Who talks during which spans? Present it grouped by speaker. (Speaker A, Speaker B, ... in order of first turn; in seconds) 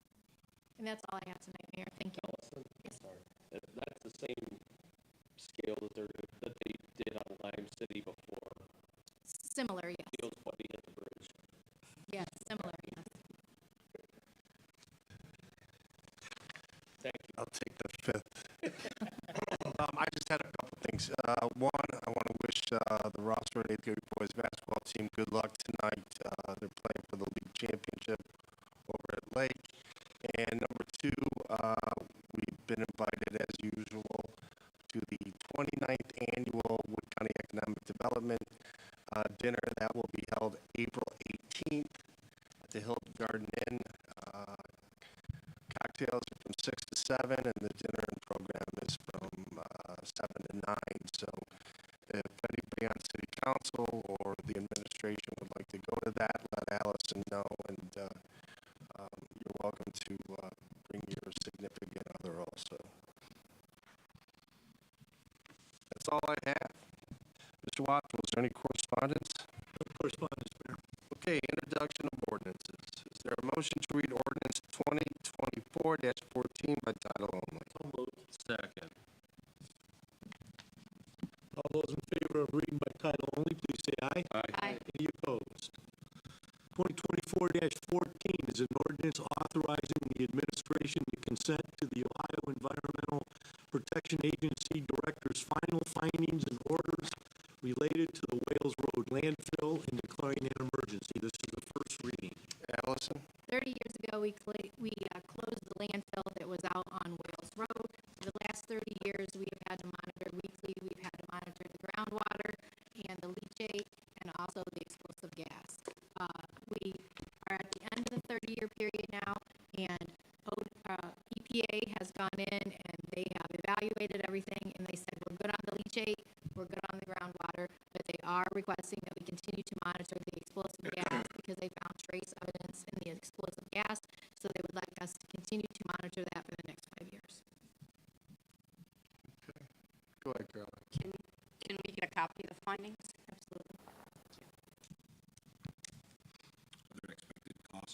Speaker A: 0.8-2.3, 9.3-10.2, 12.1-13.1, 103.5-137.4, 143.3-143.7
Speaker B: 2.2-4.6, 5.4-8.6, 10.1-11.3, 17.0-17.3, 78.3-78.9, 84.3-84.8
Speaker C: 17.4-18.7, 19.3-28.2, 28.9-29.7, 30.2-34.3, 34.9-38.5, 39.1-42.0, 42.6-44.7, 45.7-51.5, 52.1-58.2, 58.9-62.9, 65.9-66.8, 67.6-69.5, 71.1-77.7, 102.6-103.2, 140.2-140.9
Speaker D: 69.8-70.8, 77.7-78.3, 81.5-85.7, 86.7-102.4, 146.9-147.7
Speaker E: 140.9-143.1